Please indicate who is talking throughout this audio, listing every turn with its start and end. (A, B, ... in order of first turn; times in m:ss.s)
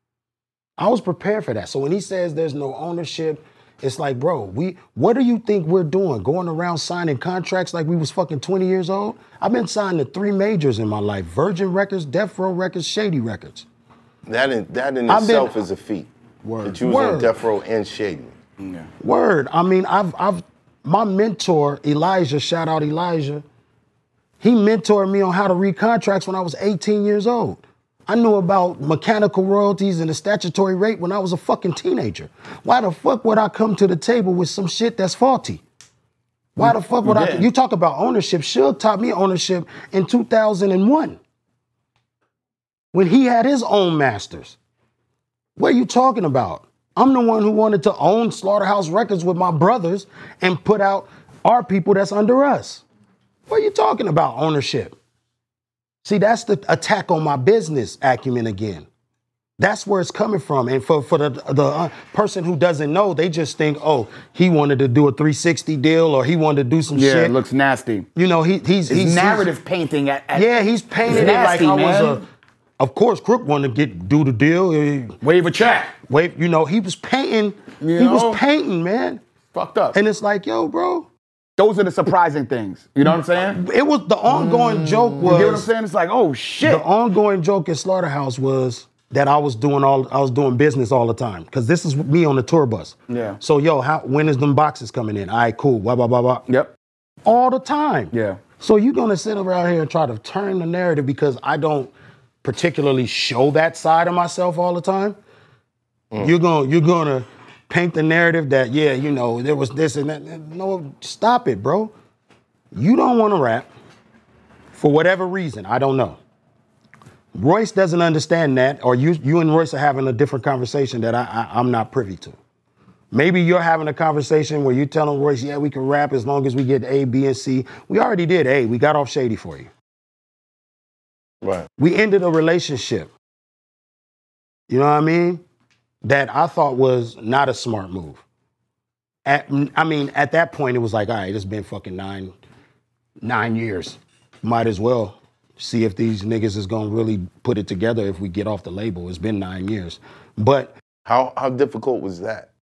0:00.8-0:13.7 A
0:14.3-0:16.1 B
0:15.1-0:15.6 A
0:16.4-0:17.4 A
0:16.6-0:18.4 B
0:19.0-0:23.4 A
0:24.4-0:35.6 A
0:36.6-0:41.2 A
0:36.6-0:37.5 C
0:42.9-0:44.6 A
0:45.6-0:52.8 A
0:53.5-0:55.0 A
0:56.0-0:58.9 A
0:59.6-1:07.4 A
1:06.9-1:08.1 C
1:08.2-1:09.5 A
1:08.9-1:12.2 C
1:10.3-1:12.2 A
1:12.8-1:15.2 A
1:15.2-1:15.9 C
1:16.1-1:19.2 A
1:17.8-1:18.4 C
1:19.5-1:20.0 C
1:19.9-1:21.1 A
1:21.6-1:23.6 C
1:23.4-1:25.7 A
1:24.6-1:26.9 C
1:26.6-1:36.4 A
1:33.1-1:33.4 C
1:36.5-1:36.7 C
1:37.3-1:41.9 A
1:38.1-1:38.4 C
1:42.4-1:45.2 A
1:46.2-1:51.9 A
1:52.7-1:53.7 A
1:54.7-1:56.2 A
1:57.4-2:02.4 A
2:03.1-2:09.7 A
2:11.4-2:11.7 B
2:11.8-2:13.1 A
2:14.7-2:15.4 A
2:16.0-2:18.2 A
2:19.2-2:22.3 A
2:23.2-2:30.8 A
2:31.1-2:32.5 B